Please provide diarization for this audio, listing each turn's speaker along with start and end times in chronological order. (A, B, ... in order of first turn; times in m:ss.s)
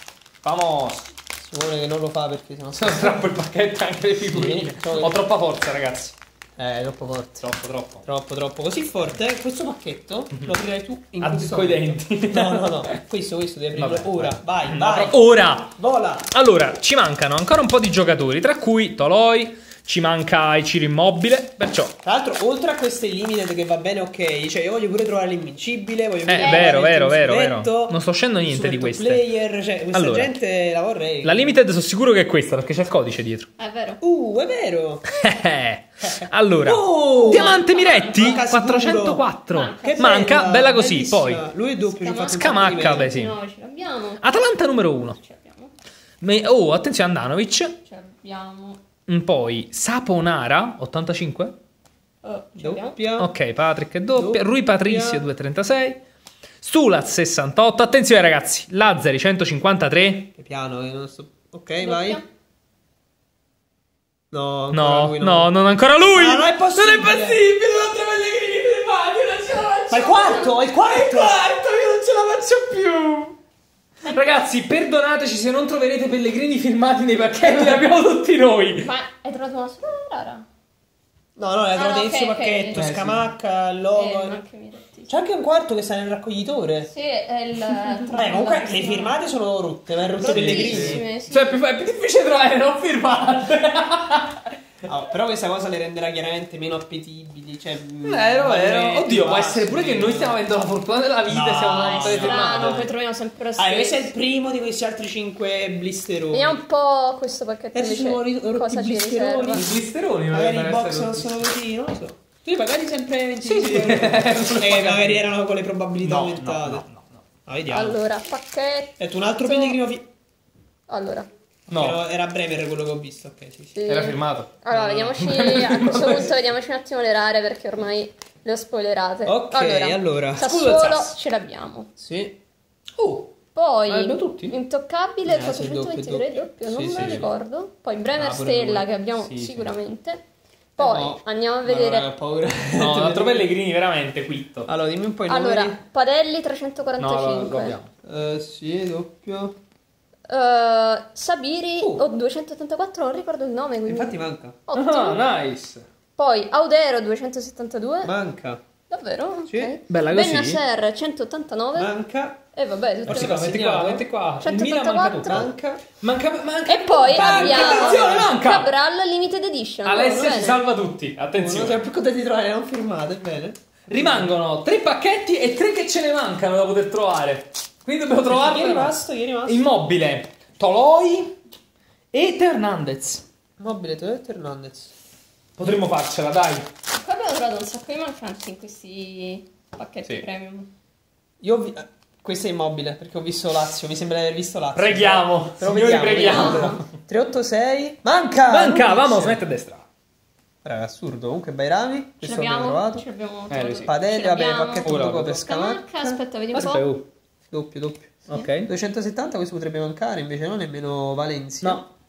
0:00.4-0:01.1 A
0:01.4-0:03.4 B
0:02.8-0:06.2 A
0:04.3-0:05.2 B
0:06.6-0:07.5 B
0:07.4-0:08.1 A
0:08.0-0:16.3 B
0:11.2-0:13.0 A
0:13.8-0:15.7 A
0:16.3-0:22.0 A
0:22.0-0:31.6 B
0:26.3-0:29.3 A
0:26.4-0:26.8 C
0:29.9-0:30.3 A
0:31.2-0:33.5 A
0:33.6-0:34.0 C
0:34.0-0:35.1 B
0:35.1-0:41.4 A
0:36.1-0:37.6 B
0:37.2-0:38.6 C
0:38.1-0:39.3 B
0:39.5-0:40.2 C
0:39.8-0:43.2 B
0:42.0-0:44.3 C
0:42.3-0:43.4 A
0:44.2-0:45.2 A
0:45.1-0:45.7 C
0:46.2-0:47.7 A
0:47.8-0:48.8 C
0:49.1-0:51.6 A
0:52.2-0:53.0 C
0:52.6-0:53.3 B
0:53.2-0:56.0 A
0:54.1-0:55.3 B
0:56.6-1:00.3 A
1:00.4-1:02.2 B
1:01.8-1:02.2 C
1:04.3-1:05.5 B
1:04.7-1:13.4 A
1:06.1-1:07.4 B
1:09.9-1:11.5 B
1:10.1-1:10.5 C
1:14.0-1:14.4 C
1:14.1-1:18.9 A
1:18.8-1:20.4 C
1:21.4-1:24.4 B
1:21.8-1:22.8 C
1:22.7-1:23.3 A
1:23.9-1:25.2 C
1:25.1-1:26.9 B
1:26.9-1:29.2 C
1:28.1-1:31.0 B
1:30.2-1:31.5 C
1:30.2-1:34.5 A
1:34.9-1:40.4 B
1:38.0-1:42.9 A
1:41.3-1:42.9 B
1:41.8-1:44.1 C
1:43.6-1:46.6 B
1:46.3-1:49.6 C
1:47.7-1:49.7 B
1:49.5-1:51.5 A
1:50.3-1:56.8 B
1:53.4-1:55.3 A
1:56.0-1:57.2 A
1:57.5-1:58.0 B
1:57.7-1:59.8 C
1:59.0-2:00.0 B
2:00.9-2:01.3 C
2:01.7-2:02.0 A
2:01.7-2:03.8 B
2:03.7-2:11.9 C
2:03.9-2:06.4 A
2:09.3-2:10.5 B
2:10.4-2:11.2 A
2:12.0-2:12.4 B
2:13.0-2:13.3 A
2:13.6-2:20.2 C
2:13.9-2:14.6 A
2:15.2-2:17.3 B
2:16.9-2:17.3 A
2:18.2-2:18.9 B
2:19.2-2:19.7 A
2:20.8-2:22.1 C
2:20.8-2:23.5 B
2:22.8-2:24.7 A
2:24.7-2:25.8 B
2:25.3-2:27.8 C
2:27.0-2:27.9 A
2:28.0-2:29.5 B
2:30.3-2:34.2 C
2:31.8-2:32.1 B
2:33.9-2:34.6 B
2:34.7-2:35.2 C
2:34.7-2:35.8 A
2:36.2-2:38.1 C
2:38.0-2:38.6 B
2:38.9-2:41.9 C
2:39.5-2:39.8 B
2:39.9-2:40.6 A
2:41.8-2:42.4 B
2:42.5-2:43.4 C
2:43.0-2:44.1 B
2:43.1-2:48.7 A
2:44.4-2:45.5 C
2:45.3-2:45.9 B
2:46.7-2:50.6 C
2:47.0-2:48.4 B
2:49.8-2:51.8 A
2:51.3-2:54.3 B
2:53.9-3:01.4 A
2:58.3-2:59.6 B
3:02.1-3:03.2 A
3:03.6-3:04.9 B
3:05.6-3:06.7 A
3:06.9-3:10.7 C
3:11.4-3:19.4 B
3:14.7-3:16.9 A
3:16.2-3:16.8 C
3:18.4-3:19.9 A
3:20.6-3:23.0 B
3:22.2-3:26.9 C
3:23.5-3:23.9 A
3:23.8-3:26.2 B
3:24.8-3:25.5 A
3:26.5-3:27.1 A
3:27.5-3:31.8 B
3:28.3-3:28.7 A
3:31.6-3:31.9 A